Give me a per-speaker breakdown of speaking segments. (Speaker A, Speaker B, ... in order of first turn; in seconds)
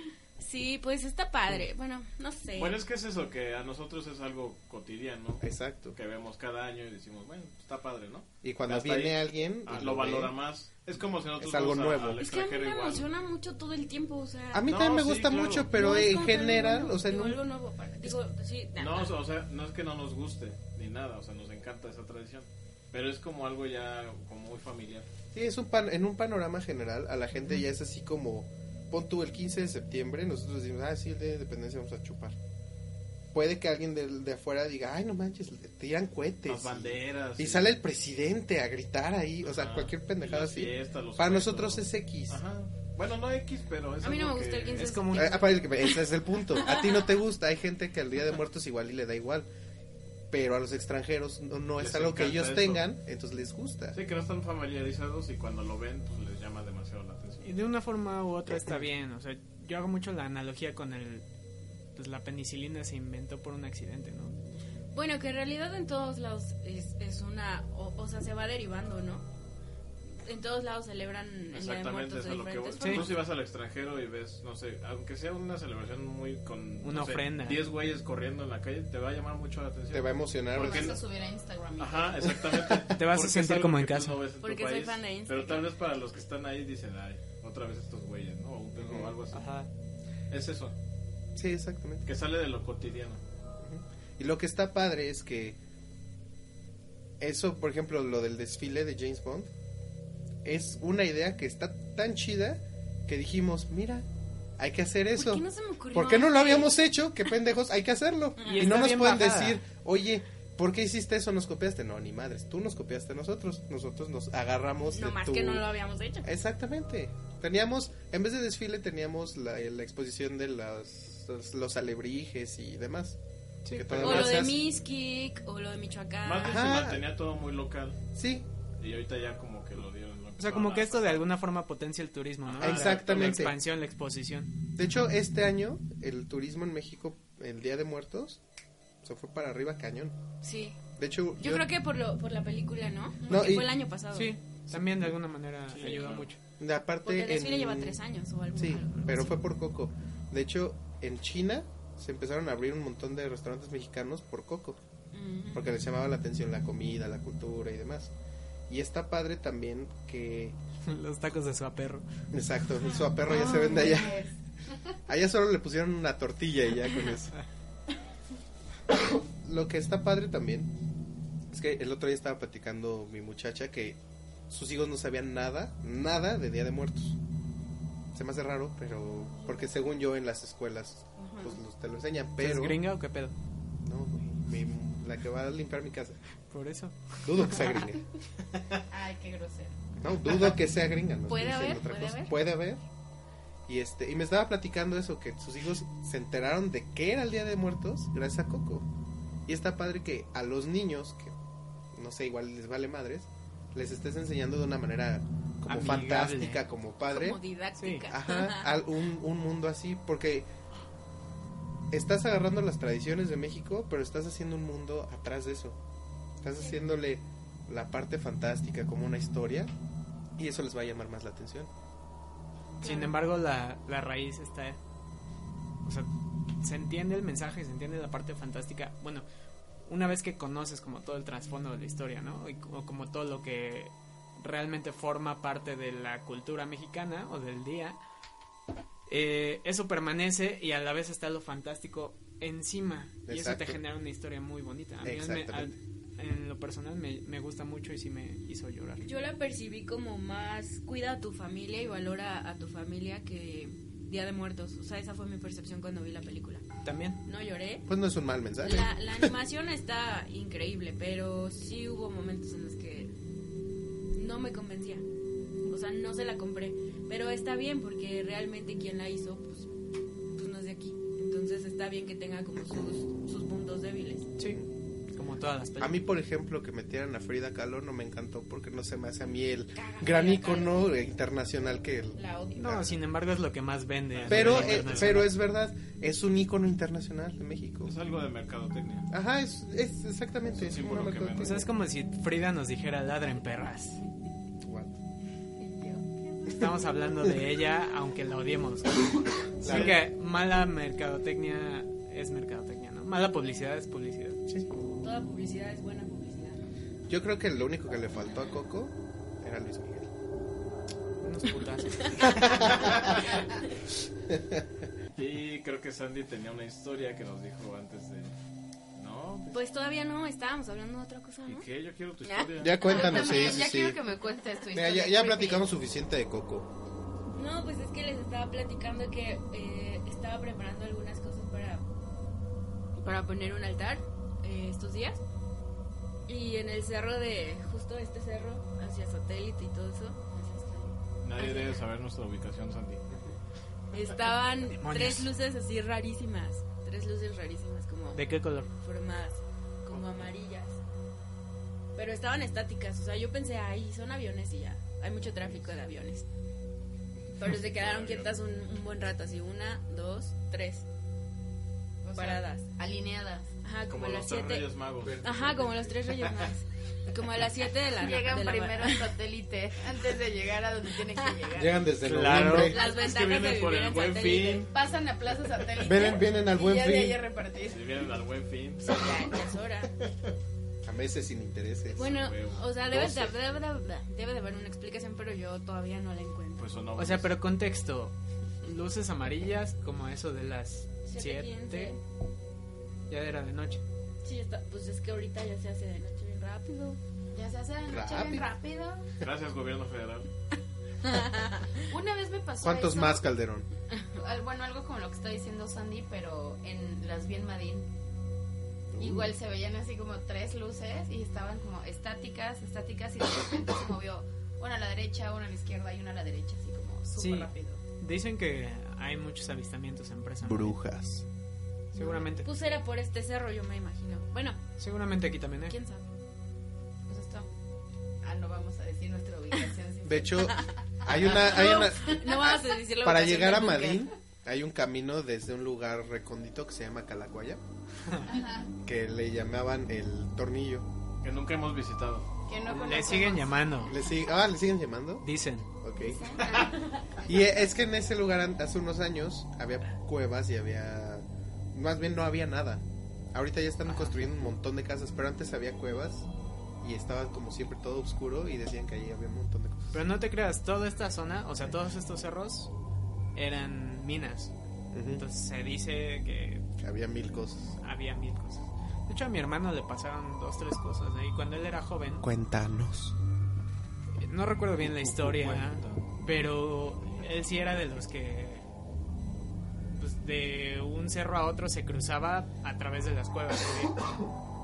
Speaker A: 0.4-2.8, 12.2-14.7, 15.7-19.1, 44.0-46.0, 64.9-69.3, 70.2-73.1, 84.4-85.7, 105.1-106.7, 108.4-108.7, 114.9-116.3, 124.0-126.6, 140.4-140.8, 141.4-144.3, 147.0-149.3, 155.1-155.7, 163.2-164.1, 191.3-192.3, 207.1-208.8, 222.8-223.1, 249.0-256.6, 257.2-257.9, 258.6-263.1, 264.1-265.0, 265.7-269.7, 270.3-274.3, 279.8-280.8, 305.0-306.6, 312.0-312.3, 319.5-321.7, 322.2-323.5, 327.3-331.8, 333.0-335.2, 336.3-340.2, 341.4-341.8, 343.9-350.8, 351.9-356.2, 357.4-360.9, 362.1-362.7, 363.6-364.7, 365.2-369.1, 372.6-374.7, 378.8-379.9, 381.9-386.7, 391.1-392.0, 394.2-397.0, 401.0-401.9, 422.1-424.6, 425.7-426.0, 431.4-434.1
Speaker B: 2.5-13.1, 14.7-15.7, 18.8-25.1, 36.5-37.7, 39.4-45.0, 51.8-52.8, 53.9-57.5, 71.5-81.0, 81.8-89.5, 90.3-90.7, 92.0-93.2, 126.2-128.0, 128.8-131.2, 132.5-133.5, 145.7-146.3, 284.1-285.2, 287.8-289.1, 290.5-291.6, 299.6-299.9, 315.1-318.3, 318.9-319.5, 321.5-323.5, 341.2-343.0, 357.2-358.3, 363.9-365.6, 366.1-366.4, 372.7-374.7, 377.7-379.2, 382.0-382.6, 386.6-387.3, 399.2-400.3, 441.2-442.2, 446.4-446.7, 475.1-476.0
Speaker C: 5.4-6.0, 8.4-10.3, 11.4-12.2, 14.5-17.4, 25.3-32.4, 33.3-42.4, 45.1-49.5, 50.3-54.0, 58.5-58.8, 79.9-81.0, 82.4-82.8, 88.7-89.1, 91.3-92.0, 93.6-95.6, 97.2-99.5, 100.4-104.0, 104.6-115.7, 116.2-123.2, 123.7-124.6, 126.4-127.0, 128.1-128.4, 132.6-133.6, 134.8-138.4, 139.0-140.2, 140.9-141.7, 143.3-143.7, 144.7-145.1, 146.6-148.0, 148.5-154.8, 155.5-158.1, 158.7-160.6, 162.3-164.2, 165.1-167.3, 169.4-170.7, 171.5-177.2, 178.1-182.8, 183.8-186.2, 187.2-188.0, 190.0-192.8, 193.7-198.9, 199.4-201.3, 201.9-207.4, 208.1-210.5, 211.9-215.8, 216.4-219.7, 220.4-221.7, 243.3-243.8, 245.0-245.7, 257.9-259.3, 275.8-282.9, 284.3-287.9, 289.1-291.7, 294.6-294.9, 299.6-300.0, 307.1-310.1, 312.2-313.1, 314.3-314.6, 322.6-324.0, 324.7-326.7, 365.0-365.9, 371.5-372.8, 375.8-377.2, 380.8-382.1, 382.9-383.3, 397.9-398.5, 402.6-403.7, 408.9-409.3, 420.4-421.2, 430.0-437.6, 438.8-440.9, 443.8-445.2, 445.8-446.6, 447.2-456.3, 456.8-460.0, 464.9-465.2, 466.8-467.8, 472.2-473.1, 475.3-475.6
Speaker D: 44.8-45.4, 57.4-61.2, 61.9-64.4, 72.8-73.1, 76.8-77.6, 82.9-84.2, 89.3-89.7, 108.4-109.6, 123.6-124.4, 130.4-134.5, 144.1-146.4, 160.8-162.1, 182.4-183.3, 186.5-187.8, 205.7-206.6, 207.8-208.1, 222.8-224.8, 226.6-229.2, 229.8-238.0, 239.1-249.1, 256.8-257.2, 275.1-276.0, 282.6-285.3, 291.4-294.0, 296.5-304.4, 311.2-312.3, 344.7-345.3, 348.1-348.7, 372.0-372.7, 386.9-392.0, 393.1-393.8, 417.2-420.8, 421.9-422.5, 424.8-425.8, 442.7-444.0, 445.2-445.7, 453.8-454.3, 459.9-462.7, 463.3-464.5, 465.1-466.7, 467.8-472.3, 474.2-478.6, 479.9-484.1
Speaker E: 80.5-82.3, 163.3-164.3, 179.3-179.7, 181.2-181.5, 188.9-189.8, 282.1-282.8, 295.6-296.6, 322.8-325.6, 340.3-340.9, 362.0-363.5, 368.0-371.9, 374.7-378.1, 397.3-399.1, 401.9-403.2, 404.1-407.9, 409.0-417.8, 427.1-427.5, 428.2-432.1, 438.2-438.7, 442.5-444.0, 445.9-447.4